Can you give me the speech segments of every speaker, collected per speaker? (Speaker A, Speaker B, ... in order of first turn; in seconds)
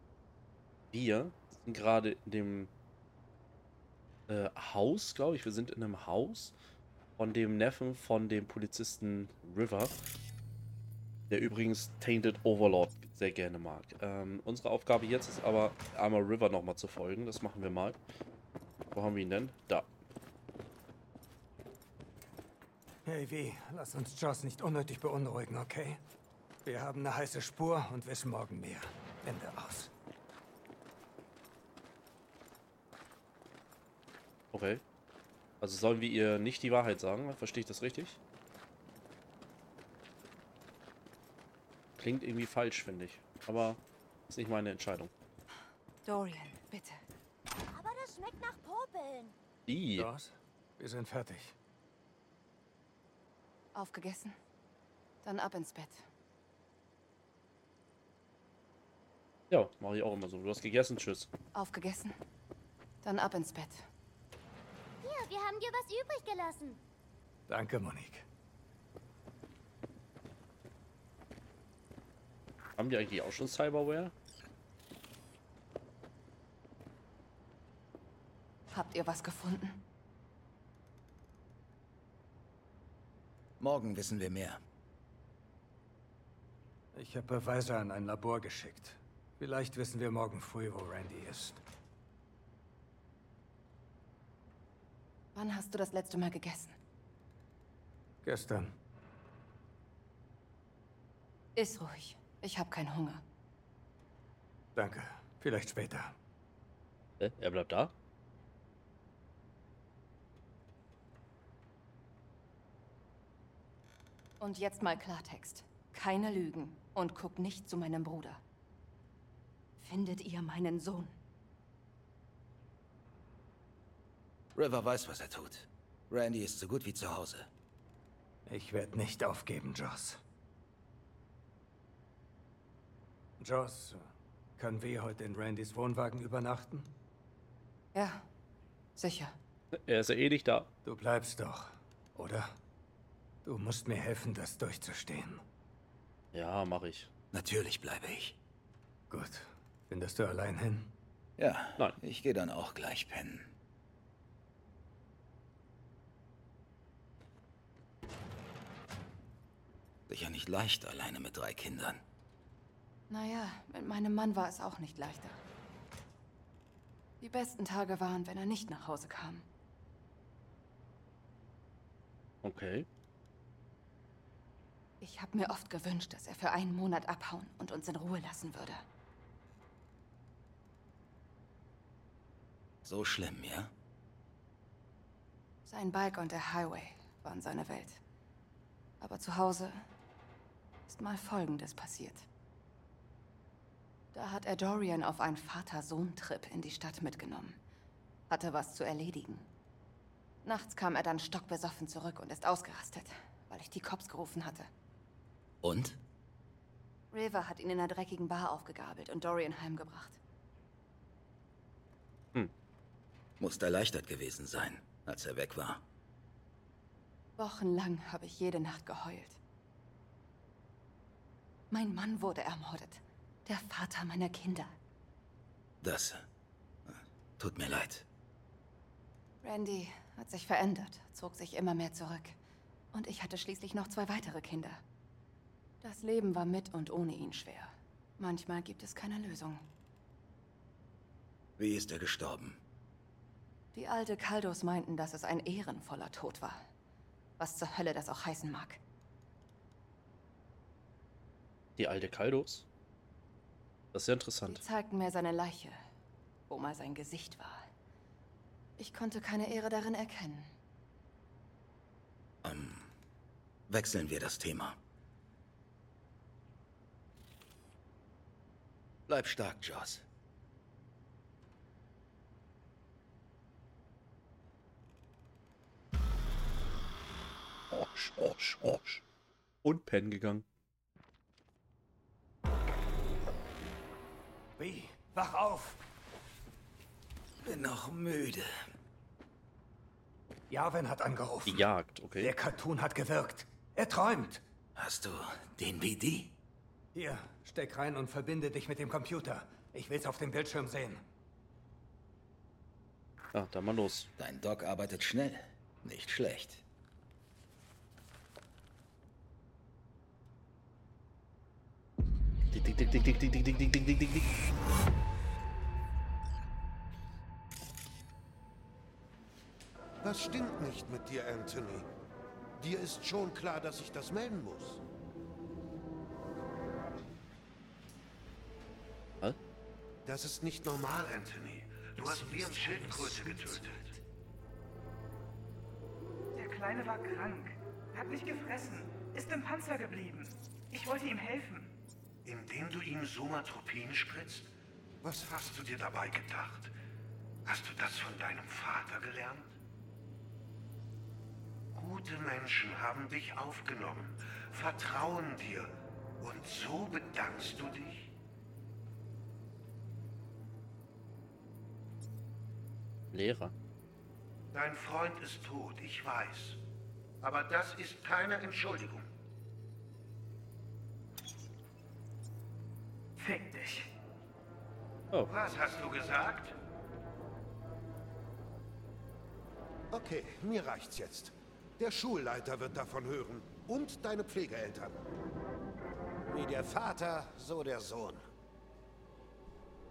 Speaker A: 0.9-2.7, 4.3-6.5, 7.2-9.9, 11.3-18.0, 18.9-19.9, 34.5-34.8, 35.6-38.2, 42.0-45.1, 49.7-50.1, 59.5-61.3, 72.8-74.1, 107.2-107.9, 139.7-140.7, 146.3-147.1, 172.4-172.9, 251.8-252.7, 253.9-254.6, 277.7-279.0, 279.6-280.4, 291.4-292.3, 303.3-304.1, 312.5-314.3, 363.1-363.5
Speaker B: 23.0-26.0, 26.6-29.9, 50.0-51.5, 67.5-68.2, 86.9-91.6, 98.2-98.7, 104.7-106.2, 128.4-130.2, 133.4-136.9, 140.8-142.6, 143.4-145.4, 149.1-150.9, 284.6-285.8, 290.5-294.4, 296.9-301.0, 332.0-333.6
Speaker C: 46.0-47.0, 53.7-54.4, 55.2-56.0, 61.5-62.2, 63.0-63.9, 78.7-79.8, 95.3-96.8, 101.5-103.2, 114.4-118.4, 119.8-121.2, 137.9-138.3, 138.9-139.3, 163.1-165.4, 167.2-169.5, 175.0-178.8, 185.7-188.0, 189.0-189.8, 190.9-192.3, 194.1-197.6, 198.3-199.5, 200.4-204.7, 207.1-210.2, 217.4-219.4, 221.7-224.7, 229.4-232.4, 232.9-234.8, 235.8-239.7, 243.7-246.7, 247.4-248.8, 254.4-255.8, 256.5-257.7, 258.8-260.5
Speaker D: 47.7-49.3, 65.0-66.8
Speaker E: 83.6-84.6, 124.5-127.5, 147.3-148.4, 151.4-153.5, 160.1-162.0, 182.8-183.7, 205.6-206.0, 213.4-215.8, 225.8-226.2, 226.8-228.1, 241.6-242.6, 262.4-262.9, 263.7-264.8, 269.1-270.0, 287.4-288.6, 294.8-296.4, 304.2-306.6
Speaker F: 320.0-321.9, 322.6-324.8, 330.1-333.9, 342.2-344.5, 345.0-346.7, 347.4-349.5, 351.7-358.1, 364.5-366.6, 367.2-369.1, 375.3-376.5, 379.9-385.0, 386.3-388.2
Speaker G: 336.3-341.7, 373.2-373.9